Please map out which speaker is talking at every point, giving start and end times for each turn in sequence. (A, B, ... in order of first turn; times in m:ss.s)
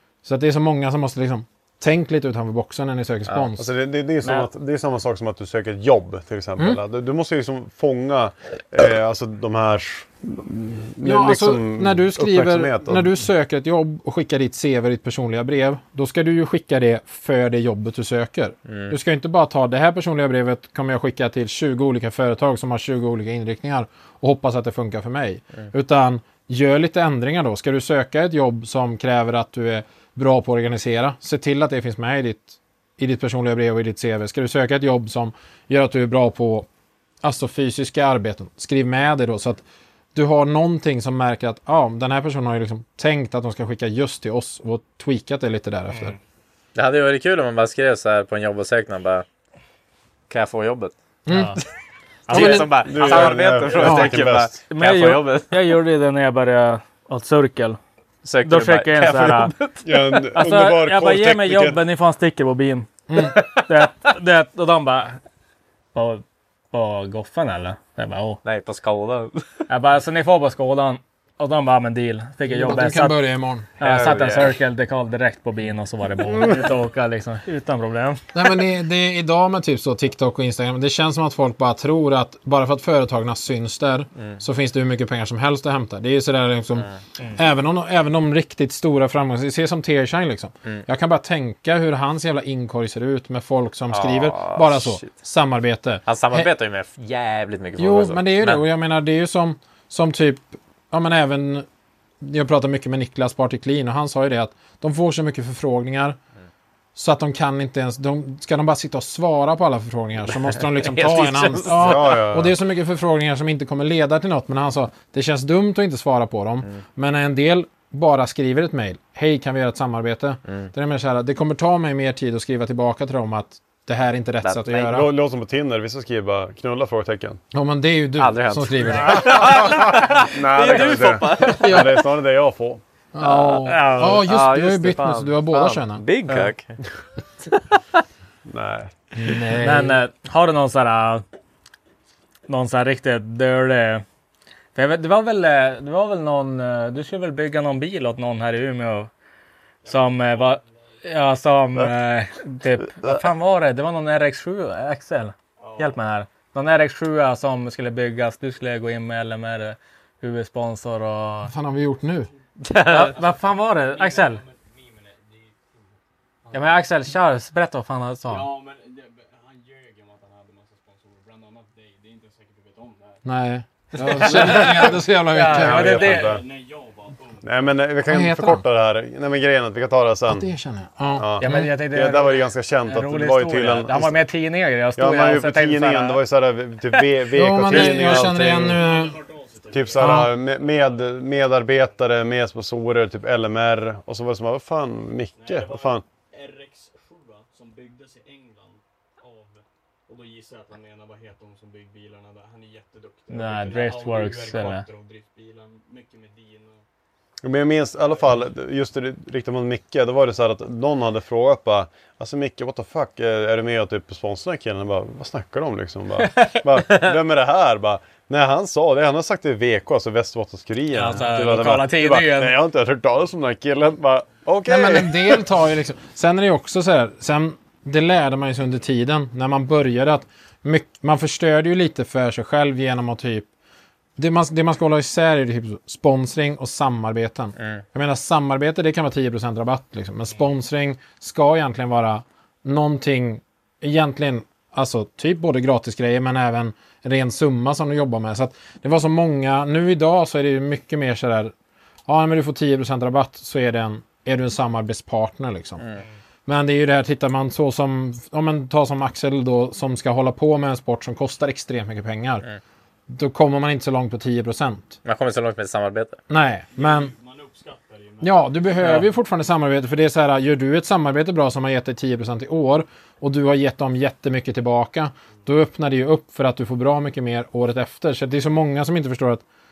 0:00.2-0:03.7 A
0:03.6-0:13.1 B
0:11.0-0:36.7 A
0:18.7-0:18.9 C
0:37.2-0:39.6 A
0:40.2-0:46.2 A
0:46.7-0:49.2 C
0:50.3-0:50.9 C
0:51.3-0:51.6 A
0:51.3-0:51.6 D
0:52.3-0:53.3 D
0:52.3-0:55.6 C
0:52.3-0:52.6 A
0:52.3-0:54.5 B
0:53.7-0:54.2 A
0:54.7-0:57.8 D
0:58.2-0:59.8 C
0:58.4-0:59.5 D
0:59.8-1:01.8 B
1:00.3-1:02.9 D
1:03.1-1:03.4 A
1:03.6-1:05.2 D
1:05.9-1:08.4 D
1:08.4-1:09.4 C
1:09.7-1:13.2 D
1:12.5-1:13.7 A
1:13.8-1:18.2 D
1:13.8-1:14.5 C
1:18.3-1:36.5 A
1:33.9-1:35.1 C
1:36.1-1:38.6 C
1:37.8-1:41.6 A
1:42.2-1:46.2 A
1:46.9-2:05.1 A
1:50.8-1:52.2 C
1:51.8-1:52.5 B
2:04.4-2:04.9 C
2:04.8-2:07.4 B
2:07.5-2:09.6 A
2:08.2-2:12.0 C
2:09.2-2:12.8 B
2:13.1-2:16.0 A
2:13.2-2:16.8 C
2:13.6-2:14.2 D
2:18.5-2:18.9 B
2:19.2-2:20.0 A
2:19.6-2:21.2 D
2:22.5-2:24.0 D
2:24.7-2:29.1 D
2:29.8-2:30.6 E
2:29.8-2:41.5 D
2:35.6-2:36.0 E
2:41.4-2:42.3 A
2:42.6-2:43.2 C
2:42.8-2:44.4 D
2:43.0-2:46.7 E
2:46.5-2:48.5 D
2:48.3-2:53.2 E
2:53.2-2:56.0 A
2:53.9-2:56.4 D
2:55.5-2:56.4 B
2:55.6-2:57.7 E
2:57.4-3:00.5 B
2:58.1-2:58.6 A
3:00.3-3:01.7 A
3:01.2-3:04.2 B
3:01.4-3:06.2 D
3:05.0-3:08.8 B
3:07.3-3:09.2 A
3:08.6-3:11.2 E
3:09.7-3:16.0 B
3:10.0-3:10.3 A
3:15.4-3:26.8 E
3:23.3-3:24.8 D
3:27.4-3:45.4 B
3:27.9-3:28.4 E
3:40.9-3:42.6 D
3:44.6-3:53.5 A
3:54.2-4:11.5 A
4:12.1-4:15.8 A
4:16.5-4:22.4 A
4:23.1-4:25.0 A
4:25.0-4:26.2 C
4:26.3-4:27.1 A
4:26.7-4:28.7 E
4:28.2-4:39.4 A